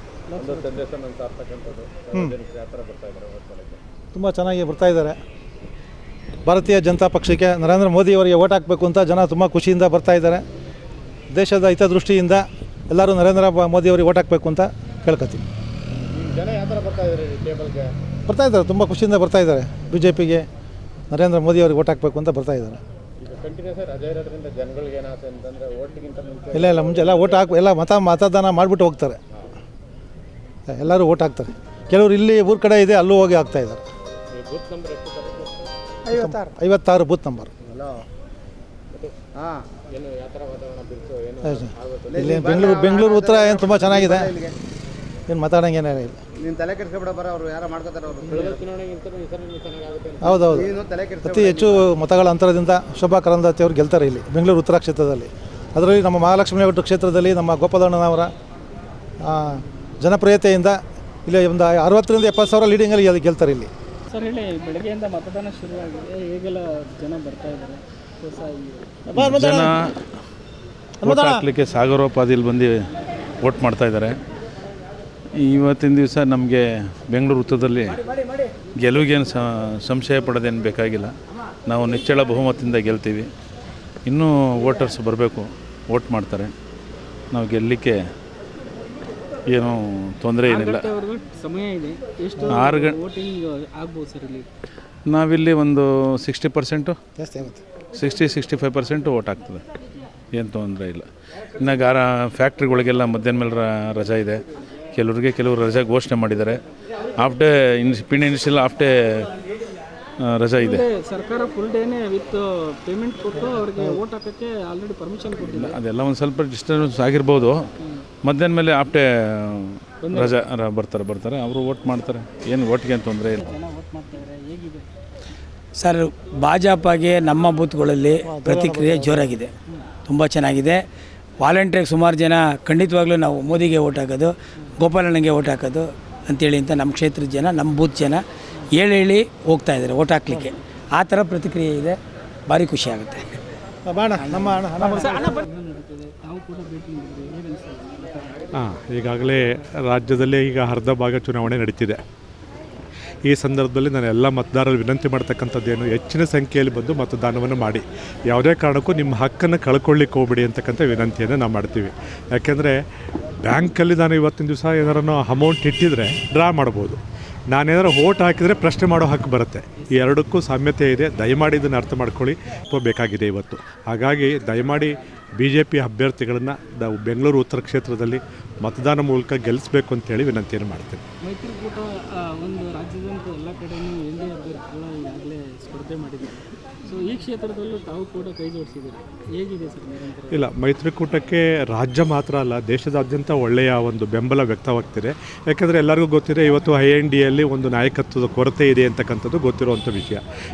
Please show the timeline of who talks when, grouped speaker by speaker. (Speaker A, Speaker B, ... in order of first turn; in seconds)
Speaker A: 0.3-0.7, 4.1-5.2, 6.5-10.4, 11.3-15.5, 18.3-20.5, 21.1-22.8, 26.5-29.2, 30.7-33.8, 36.1-37.5, 41.4-44.4, 45.3-46.2, 50.2-58.3, 59.2-63.7, 69.1-69.8, 71.0-71.5, 97.2-97.6, 128.2-129.4, 143.9-145.3
Speaker B: 0.3-3.8, 15.9-17.9, 23.2-27.6, 34.3-35.7, 38.9-39.2, 39.9-42.6, 48.2-50.5
Speaker C: 36.1-36.5, 37.6-38.0, 39.4-39.6, 42.1-44.6, 46.4-48.6, 50.5-51.9
Speaker D: 64.1-68.9, 90.5-94.5, 110.6-115.8, 117.8-118.1, 120.0-120.4, 123.3-124.9, 144.7-148.5, 169.8-170.1, 181.2-190.5
Speaker E: 69.2-70.2, 71.0-72.8, 73.4-74.2, 75.3-78.0, 78.8-83.3, 84.1-86.5, 87.3-88.0, 89.5-90.9, 92.5-93.0, 95.1-97.0, 97.9-99.6, 100.3-104.4, 104.9-106.6, 107.2-109.3, 110.2-110.9, 115.5-117.6, 118.2-123.4
Speaker F: 125.8-129.5, 130.1-130.8, 131.4-138.2, 138.8-143.4, 144.2-144.7
Speaker G: 148.6-152.0, 153.3-162.8, 163.4-167.0, 167.5-181.0, 190.3-200.2